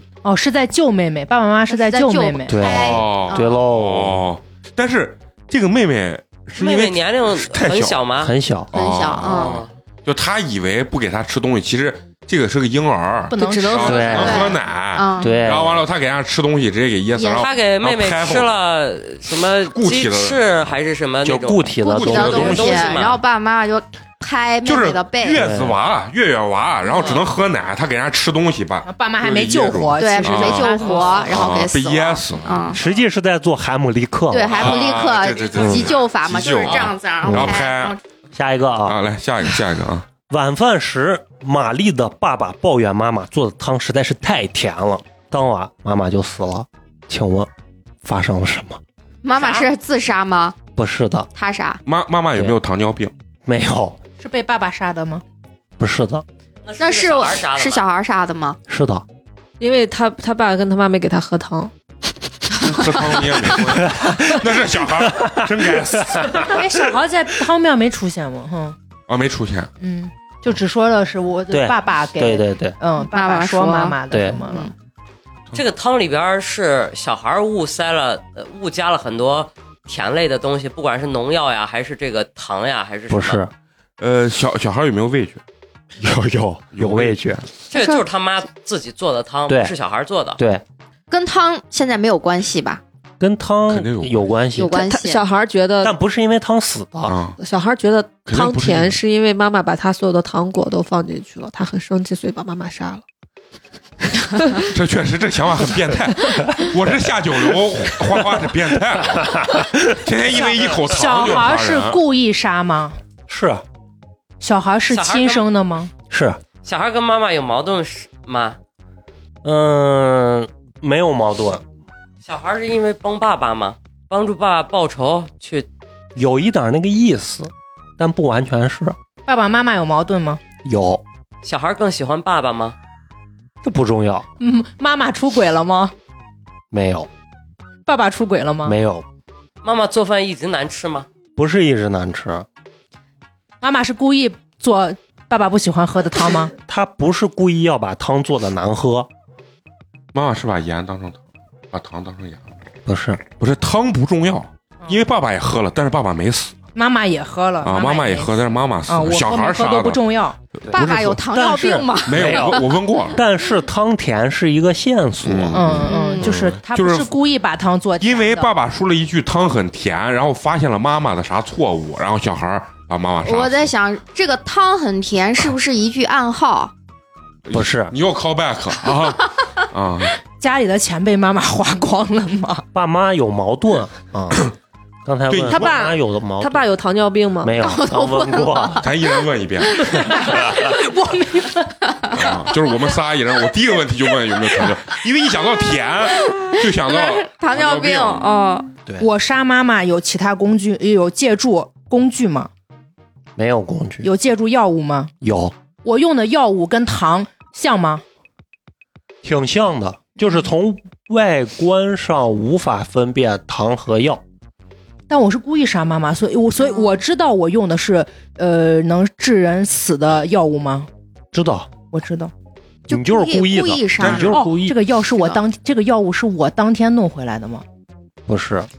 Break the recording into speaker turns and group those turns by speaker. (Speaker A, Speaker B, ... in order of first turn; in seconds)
Speaker A: 0.2-2.8, 13.3-14.4, 28.9-31.3, 54.2-55.2, 66.4-68.8, 69.8-74.7, 110.4-113.0, 114.4-115.9, 129.3-130.4, 134.4-135.9, 137.8-138.8, 143.6-146.5, 156.7-158.3, 158.9-160.4, 165.5-168.5, 180.3-182.7, 189.9-191.7, 199.0-202.5, 204.0-205.1, 205.8-208.0, 215.1-220.9, 221.9-222.3, 224.3-227.6
Speaker B: 1.7-3.6, 8.7-9.6, 14.2-15.4, 17.1-17.5, 21.8-25.4, 30.0-32.8, 34.3-38.0, 49.2-50.6, 51.4-51.8, 56.8-58.6, 73.1-74.0, 91.1-92.8, 94.5-95.2, 160.7-162.7, 165.8-166.3, 173.2-176.7, 187.6-189.9, 191.9-192.5, 196.2-198.7, 222.9-224.4, 225.1-225.4
Speaker C: 2.5-4.2, 8.2-8.7, 13.8-14.4, 15.2-15.8, 21.2-22.6, 25.4-25.8, 32.7-34.8, 35.5-35.9, 37.2-37.6, 38.3-39.0, 40.3-47.5, 48.0-48.8, 50.8-51.3, 53.4-54.0, 55.8-56.2, 58.7-59.0, 63.7-66.6, 71.5-72.8, 74.1-74.4, 83.1-83.5, 86.0-87.4, 89.5-89.7, 90.4-90.6, 93.2-94.8, 95.8-97.1, 109.2-110.1, 113.3-113.6, 116.1-116.4, 119.4-121.6, 126.1-129.0, 130.6-131.0, 133.6-134.3, 136.7-137.1, 138.6-139.1, 141.3-142.4, 146.7-149.1, 152.8-153.2, 160.6-165.9, 177.5-177.9, 182.7-184.4, 185.1-186.6, 187.4-188.9, 190.2-190.7, 203.4-204.1, 205.2-205.6, 209.2-214.2, 221.3-221.7, 222.9-224.8, 228.3-228.7
Speaker D: 2.7-8.0, 8.7-18.5, 19.7-20.7, 21.9-23.1, 24.6-32.8, 34.4-38.0, 38.8-40.1, 51.8-53.1, 62.6-66.6, 69.1-69.7, 84.0-85.4, 86.7-87.2, 93.7-94.3, 97.1-97.4, 98.3-98.9, 104.6-112.0, 150.1-151.2, 151.7-152.5, 153.4-156.6, 157.6-160.0, 162.0-163.2, 165.2-167.1, 168.0-173.7, 177.4-180.2, 185.3-185.8, 188.8-190.0, 192.1-198.3, 224.0-224.4
Speaker E: 6.6-8.3, 9.2-9.7, 17.4-23.2, 27.0-27.2, 36.6-36.9, 49.4-49.7, 56.6-57.9, 75.5-83.4, 87.7-90.4, 114.9-115.5, 116.6-118.6, 122.2-125.7, 131.4-132.7, 139.6-141.1
Speaker F: 13.3-14.4, 59.6-61.7, 87.7-88.0, 94.6-95.9, 97.4-103.0, 185.4-187.6